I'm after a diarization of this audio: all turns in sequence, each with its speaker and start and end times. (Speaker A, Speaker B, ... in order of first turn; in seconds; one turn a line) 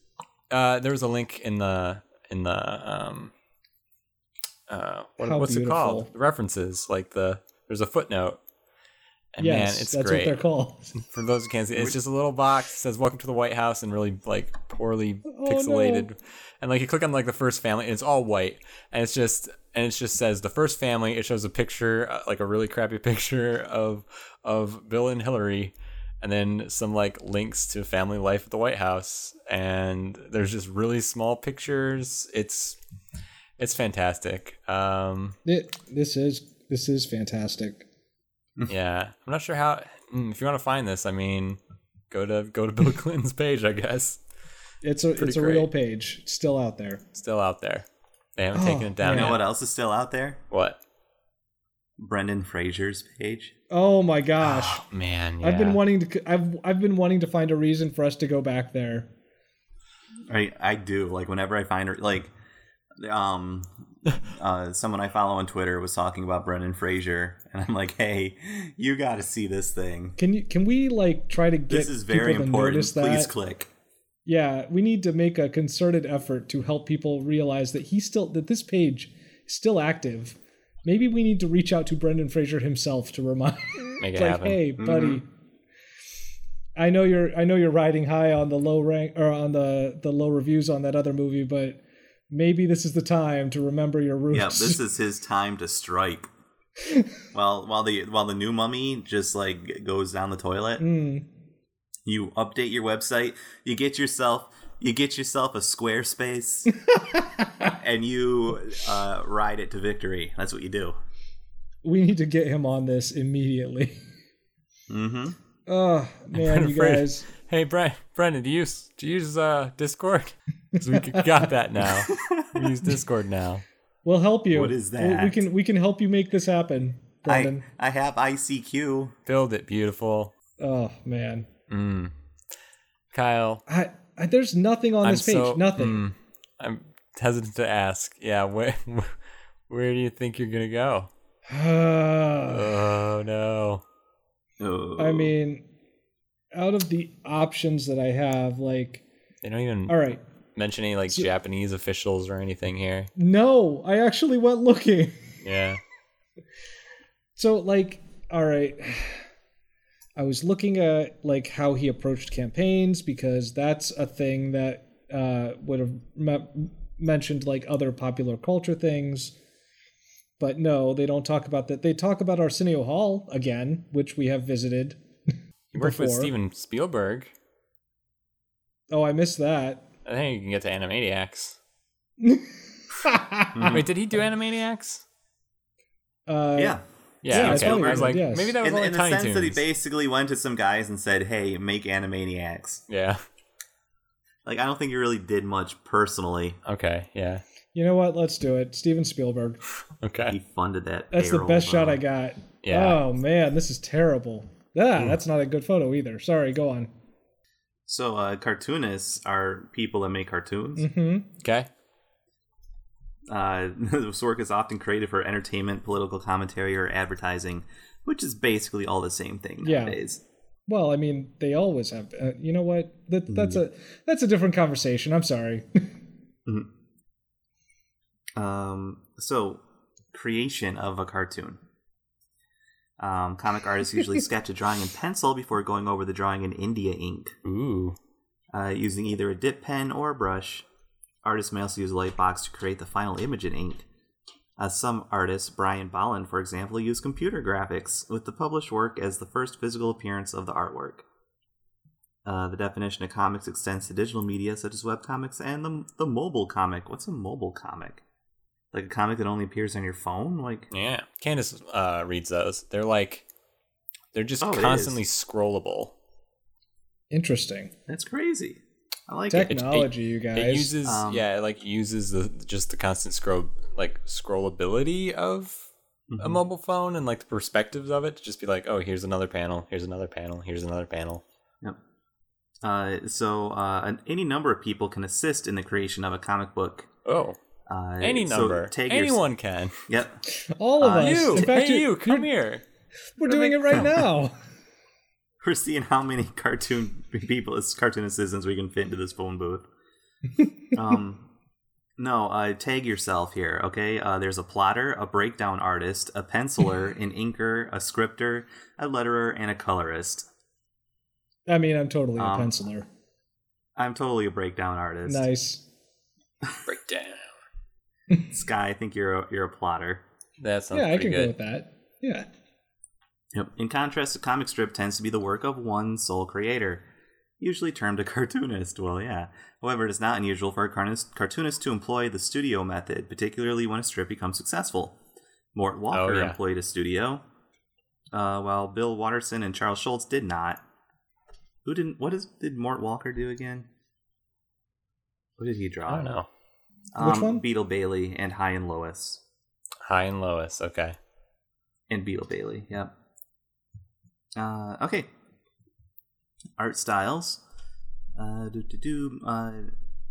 Speaker A: 0.5-3.3
Speaker A: 4.7-8.4
Speaker B: 5.2-6.1
Speaker A: 9.3-10.4
Speaker B: 9.4-10.9
Speaker A: 11.0-32.8
Speaker B: 15.3-16.1
Speaker A: 33.6-35.4
Speaker B: 35.4-37.8
Speaker A: 38.7-41.6
Speaker A: 42.1-44.2
Speaker B: 44.8-47.0
Speaker A: 45.2-45.7
Speaker A: 47.1-47.9
Speaker A: 48.4-49.4
Speaker B: 48.5-49.4
Speaker C: 49.0-50.4
Speaker A: 50.5-50.8
Speaker C: 52.0-53.5
Speaker B: 53.7-54.8
Speaker A: 54.4-55.8
Speaker B: 55.4-59.1
Speaker C: 60.3-62.3
Speaker C: 63.0-70.2
Speaker B: 70.2-73.3
Speaker C: 71.7-73.7
Speaker B: 74.2-85.2
Speaker A: 84.0-84.6
Speaker C: 84.8-85.2
Speaker B: 86.8-94.8
Speaker C: 94.3-96.3
Speaker C: 97.3-100.8
Speaker B: 100.8-101.3
Speaker C: 102.0-106.7
Speaker B: 106.9-107.7
Speaker C: 107.8-111.0
Speaker B: 111.8-114.0
Speaker C: 114.9-115.4
Speaker B: 115.7-117.3
Speaker A: 116.3-123.6
Speaker B: 120.8-121.4
Speaker C: 122.1-122.5
Speaker B: 124.0-127.6
Speaker C: 124.5-125.5
Speaker C: 127.2-129.2
Speaker A: 129.2-130.3
Speaker B: 130.6-131.5
Speaker A: 131.7-132.1
Speaker A: 133.1-133.6
Speaker B: 133.7-136.0
Speaker A: 135.0-139.2
Speaker A: 139.7-141.1
Speaker B: 141.5-142.8
Speaker A: 142.5-143.8
Speaker C: 144.6-145.3
Speaker B: 145.0-145.6
Speaker B: 146.5-149.0
Speaker A: 149.4-150.0
Speaker B: 149.9-150.2
Speaker A: 150.6-153.1
Speaker B: 153.2-155.2
Speaker A: 155.4-155.8
Speaker B: 157.3-159.2
Speaker B: 160.2-169.3
Speaker B: 170.4-175.0
Speaker B: 175.7-176.3
Speaker A: 175.7-177.3
Speaker B: 178.9-179.8
Speaker A: 180.0-181.6
Speaker B: 182.2-182.5
Speaker B: 183.0-183.7
Speaker C: 183.5-183.9
Speaker A: 183.7-185.0
Speaker B: 186.3-188.5
Speaker C: 186.6-192.8
Speaker A: 187.2-189.6
Speaker A: 192.9-193.2
Speaker C: 194.4-196.6
Speaker A: 196.6-197.4
Speaker B: 197.7-199.6
Speaker A: 200.0-200.3
Speaker C: 200.3-202.0
Speaker B: 201.1-206.9
Speaker A: 202.6-203.0
Speaker C: 207.9-210.9
Speaker B: 210.8-211.3
Speaker A: 211.4-211.7
Speaker C: 213.3-220.2
Speaker B: 219.6-220.0
Speaker B: 220.7-225.9
Speaker C: 223.3-223.6
Speaker C: 228.3-231.6
Speaker C: 233.0-237.3
Speaker A: 237.4-237.9
Speaker C: 238.5-240.7
Speaker C: 241.2-243.8
Speaker C: 244.6-251.0
Speaker C: 252.2-258.0
Speaker C: 258.7-260.7
Speaker A: 260.7-263.2
Speaker A: 264.1-265.9
Speaker C: 264.4-265.0
Speaker B: 267.1-267.7
Speaker C: 267.9-269.6
Speaker B: 269.3-270.7
Speaker A: 269.5-275.7
Speaker C: 270.8-271.2
Speaker C: 276.1-276.4
Speaker A: 276.2-281.2
Speaker C: 282.6-286.9
Speaker A: 287.1-287.4
Speaker C: 287.7-289.2
Speaker A: 288.0-289.8
Speaker C: 289.9-290.2
Speaker B: 290.6-292.3
Speaker C: 290.8-291.5
Speaker A: 291.0-292.6
Speaker B: 293.2-294.3
Speaker A: 293.2-294.0
Speaker C: 295.4-299.6
Speaker C: 300.7-301.3
Speaker C: 302.0-310.3
Speaker B: 311.5-312.9
Speaker C: 312.2-312.5
Speaker C: 313.8-315.3
Speaker B: 315.1-315.6
Speaker A: 316.6-317.3
Speaker C: 318.3-320.0
Speaker A: 320.4-321.3
Speaker B: 320.7-322.3
Speaker C: 323.3-326.8
Speaker C: 327.4-335.0
Speaker C: 335.5-337.2
Speaker A: 335.9-336.4
Speaker C: 338.1-340.6
Speaker C: 341.6-343.7
Speaker C: 345.4-346.1
Speaker A: 345.9-346.3
Speaker C: 346.9-349.2
Speaker B: 347.0-347.4
Speaker A: 349.8-350.9
Speaker C: 351.9-352.9
Speaker C: 354.4-355.1
Speaker C: 356.6-357.4
Speaker C: 358.1-359.7